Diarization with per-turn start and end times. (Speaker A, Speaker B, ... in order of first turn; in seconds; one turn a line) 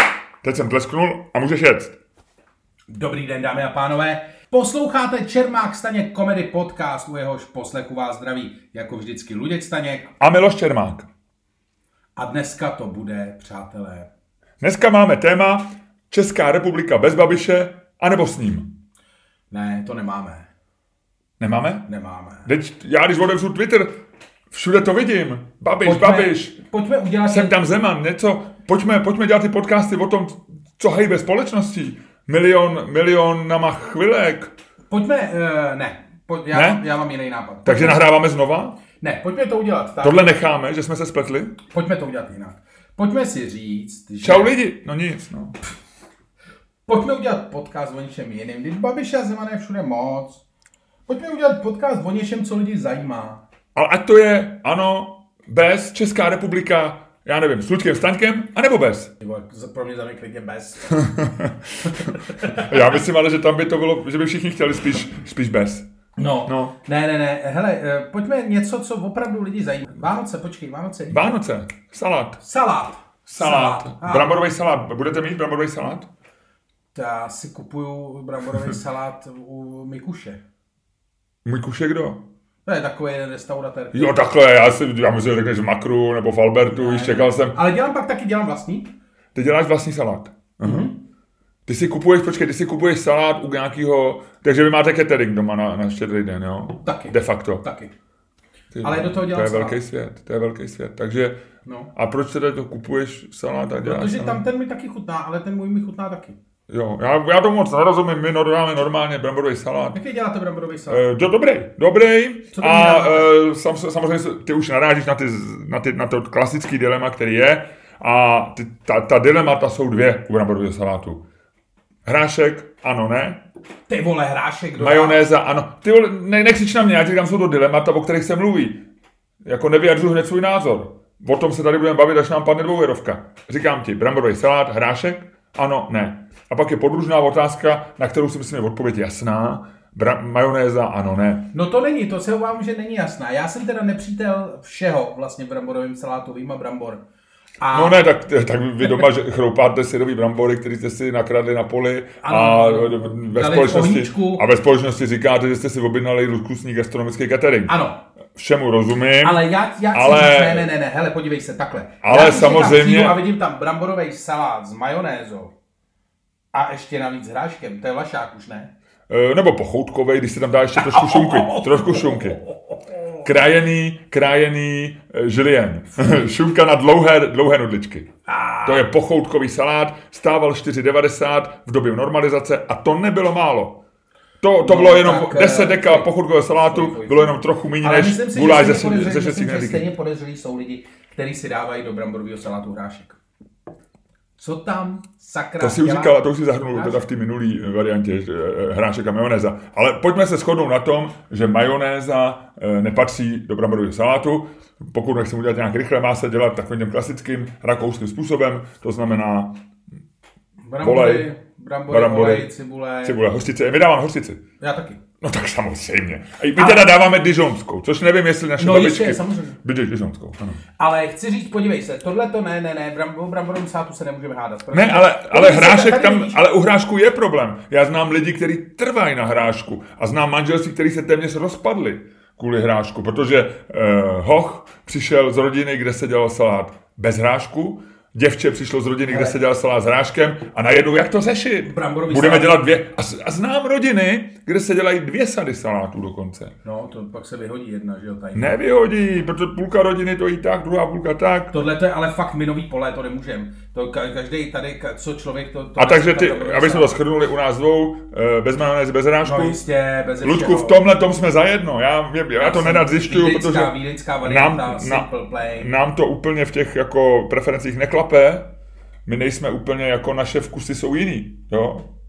Speaker A: 0.4-2.0
Speaker B: 2.9-10.1
Speaker A: 10.2-11.1
Speaker B: 12.2-14.1
Speaker A: 14.6-18.7
Speaker B: 19.5-20.5
Speaker A: 21.4-21.9
Speaker B: 21.9-22.5
Speaker A: 22.4-23.9
Speaker A: 24.5-26.6
Speaker B: 25.8-27.6
Speaker A: 27.2-34.5
Speaker B: 34.9-38.0
Speaker A: 36.5-36.8
Speaker A: 37.6-38.8
Speaker B: 39.0-40.3
Speaker A: 40.0-41.6
Speaker B: 41.7-44.5
Speaker A: 44.2-45.6
Speaker B: 46.9-50.4
Speaker B: 51.1-53.4
Speaker A: 53.7-59.1
Speaker B: 59.2-61.1
Speaker A: 60.9-65.9
Speaker B: 61.8-62.8
Speaker B: 66.2-71.4
Speaker A: 66.4-66.7
Speaker A: 71.1-72.4
Speaker B: 72.4-74.4
Speaker A: 73.2-76.1
Speaker B: 76.9-80.4
Speaker A: 81.4-82.2
Speaker B: 82.6-84.3
Speaker A: 83.9-87.5
Speaker B: 86.7-88.9
Speaker A: 89.3-90.9
Speaker B: 90.6-91.0
Speaker A: 91.7-97.6
Speaker B: 96.8-97.9
Speaker A: 98.7-101.4
Speaker B: 98.8-99.8
Speaker B: 101.6-101.9
Speaker A: 101.9-104.4
Speaker B: 103.8-106.4
Speaker A: 106.7-110.0
Speaker B: 109.9-111.0
Speaker A: 110.9-121.2
Speaker B: 112.5-113.3
Speaker A: 122.0-123.4
Speaker B: 123.9-125.2
Speaker A: 124.8-128.8
Speaker A: 129.4-141.5
Speaker B: 141.5-147.0
Speaker B: 147.6-148.0
Speaker A: 147.7-157.7
Speaker B: 152.2-154.4
Speaker B: 157.7-158.0
Speaker A: 158.3-159.4
Speaker B: 159.2-165.5
Speaker A: 159.9-160.7
Speaker A: 162.0-163.2
Speaker B: 166.5-168.7
Speaker A: 169.1-172.4
Speaker B: 170.8-173.2
Speaker A: 173.2-178.1
Speaker B: 178.3-178.9
Speaker A: 178.6-183.8
Speaker A: 184.4-189.9
Speaker B: 184.6-193.2
Speaker B: 194.4-196.2
Speaker A: 195.6-209.6
Speaker B: 196.7-197.0
Speaker B: 210.7-213.2
Speaker A: 210.8-211.2
Speaker A: 211.9-212.5
Speaker A: 213.0-214.4
Speaker B: 214.6-215.0
Speaker A: 215.2-220.6
Speaker B: 216.6-216.9
Speaker B: 218.6-219.6
Speaker B: 220.8-226.4
Speaker A: 224.7-246.5
Speaker B: 239.0-239.4
Speaker B: 241.6-242.6
Speaker B: 246.6-248.6
Speaker A: 248.3-251.5
Speaker B: 251.5-257.0
Speaker A: 255.8-259.6
Speaker B: 259.2-260.8
Speaker A: 260.2-268.5
Speaker B: 262.4-265.8
Speaker A: 269.1-271.8